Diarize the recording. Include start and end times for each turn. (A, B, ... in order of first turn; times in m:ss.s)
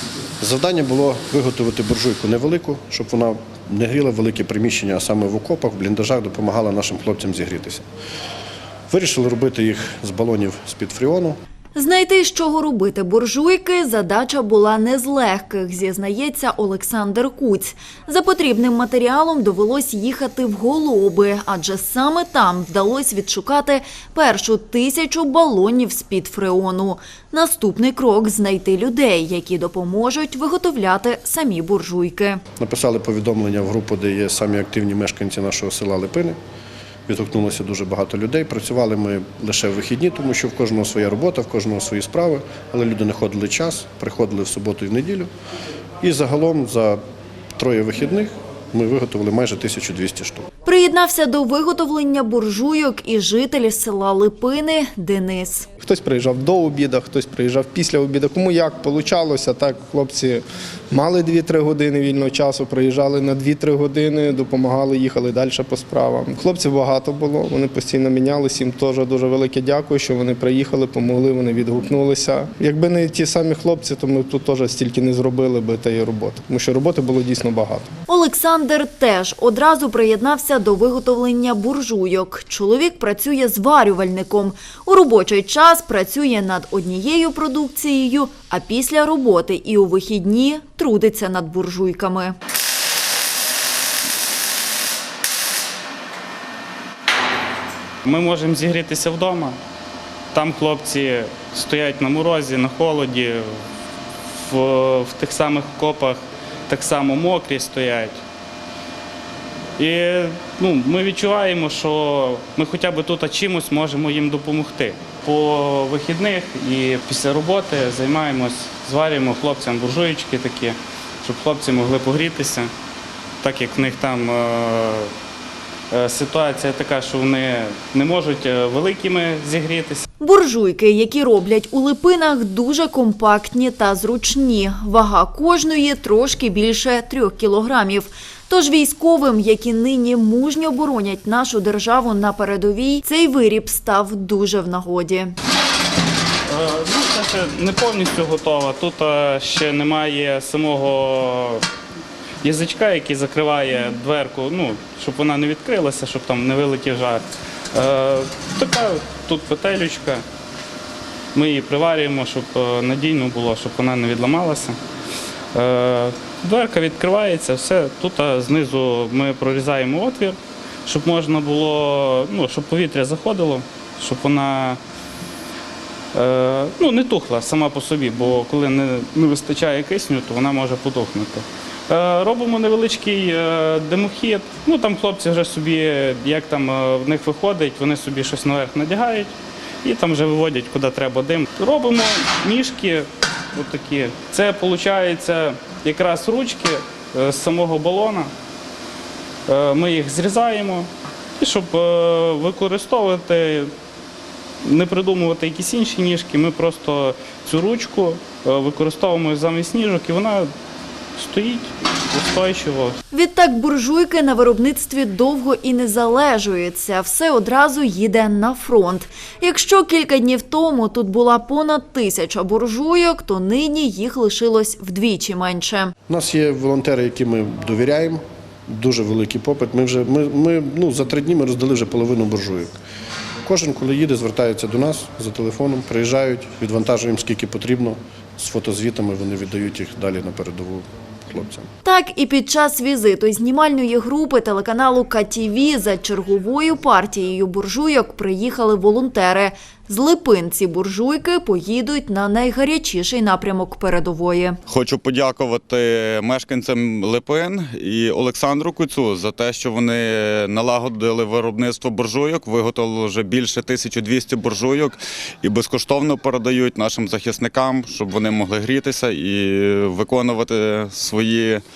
0:00.4-0:07.9 A
0:08.9-0:11.4 A
0:11.8-0:32.4 B
0:32.6-0:36.4 A
0:37.1-0:45.3 A
0:46.0-0:47.0 A
0:47.6-0:50.5 A
0:50.6-0:55.7 B
0:55.8-1:17.9 C
1:18.1-1:32.4 B
1:38.0-1:39.6 D
1:40.3-1:43.6 D
1:44.4-1:48.2 D
1:49.8-2:02.7 D
2:03.4-2:05.1 D
2:05.9-2:10.0 D
2:10.2-2:25.4 B
2:26.5-2:31.6 D
2:32.4-2:40.2 D
2:41.3-2:44.8 D
2:45.5-2:54.8 D
2:56.1-3:18.3 D
3:19.5-3:20.9 D
3:21.4-3:23.7 D
3:24.6-3:30.5 D
3:31.2-3:33.0 D
3:33.1-3:45.9 B
3:46.1-3:52.8 A
3:53.4-4:01.7 A
4:01.8-4:14.6 B
4:14.7-4:31.6 E